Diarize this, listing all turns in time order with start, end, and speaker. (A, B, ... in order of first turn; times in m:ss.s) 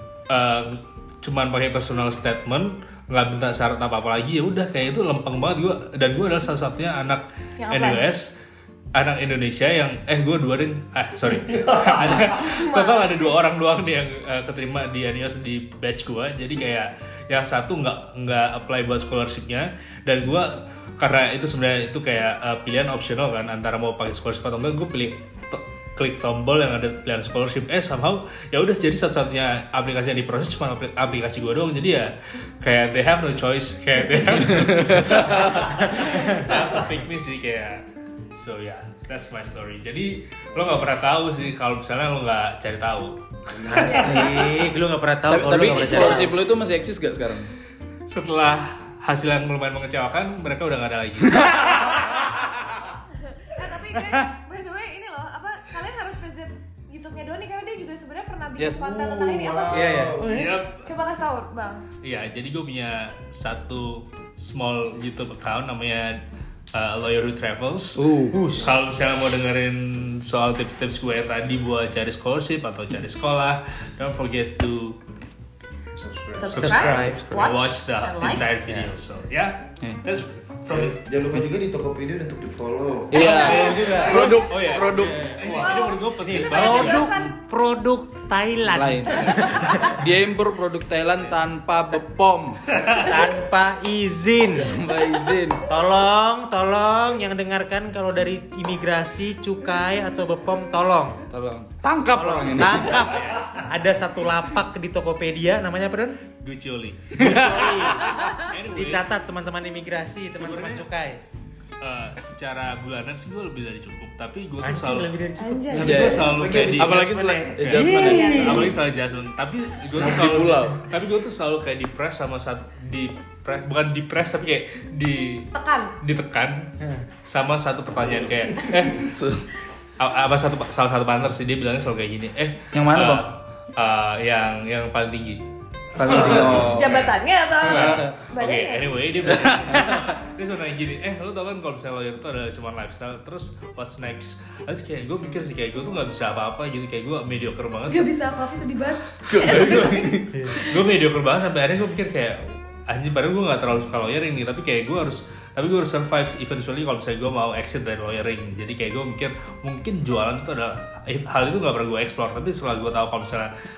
0:00.3-0:08.3 A
0:07.6-0:08.0 B
0:08.9-0:44.4 A
0:12.0-0:13.3 B
0:34.5-0:35.5 C
0:35.8-0:36.5 D
0:43.5-0:44.2 E
0:43.7-0:46.4 D
0:43.8-0:44.5 B
0:45.3-0:47.5 C
0:48.1-0:52.3 A
0:53.4-1:00.0 B
0:58.6-1:00.2 C
0:59.5-1:00.2 E
0:59.7-1:00.6 D
1:00.2-1:00.9 A
1:00.8-1:01.8 B
1:02.0-1:06.2 A
1:06.7-1:08.0 A
1:08.0-1:08.4 C
1:08.3-1:08.8 D
1:08.6-1:15.0 A
1:16.0-1:16.6 E
1:16.3-1:18.5 B
1:16.5-1:17.3 D
1:16.7-1:21.0 A
1:18.5-1:18.9 D
1:20.7-1:23.4 E
1:23.1-1:25.4 C
1:23.1-1:24.3 B
1:23.2-1:27.1 A
1:25.4-1:27.3 B
1:26.2-1:30.0 D
1:28.7-1:32.7 C
1:32.7-1:33.1 A
1:33.0-1:34.8 D
1:34.6-1:35.6 C
1:35.7-1:41.2 D
1:41.3-1:43.0 C
1:42.1-1:46.2 D
1:42.9-1:43.5 A
1:46.4-1:47.1 A
1:47.1-1:47.8 C
1:47.2-1:51.2 D
1:47.6-1:47.9 E
1:48.1-1:48.5 B
1:48.4-1:49.0 A
1:50.3-1:50.8 A
1:51.8-1:55.1 A
1:54.6-1:58.7 D
1:55.4-1:56.2 B
1:55.8-1:58.7 C
1:55.8-1:57.0 A
1:55.8-1:58.7 E
1:57.6-2:06.7 A
1:57.8-1:58.6 B
2:00.0-2:00.9 C
2:05.5-2:06.0 B
2:06.8-2:07.0 D
2:07.2-2:09.2 A
2:09.0-2:09.5 C
2:10.0-2:15.4 A
2:12.7-2:13.3 C
2:15.9-2:17.0 C
2:16.0-2:28.2 A
2:16.6-2:19.0 B
2:17.6-2:18.1 C
2:19.3-2:20.2 C
2:27.9-2:30.8 B
2:29.3-2:30.4 C
2:29.4-2:43.5 A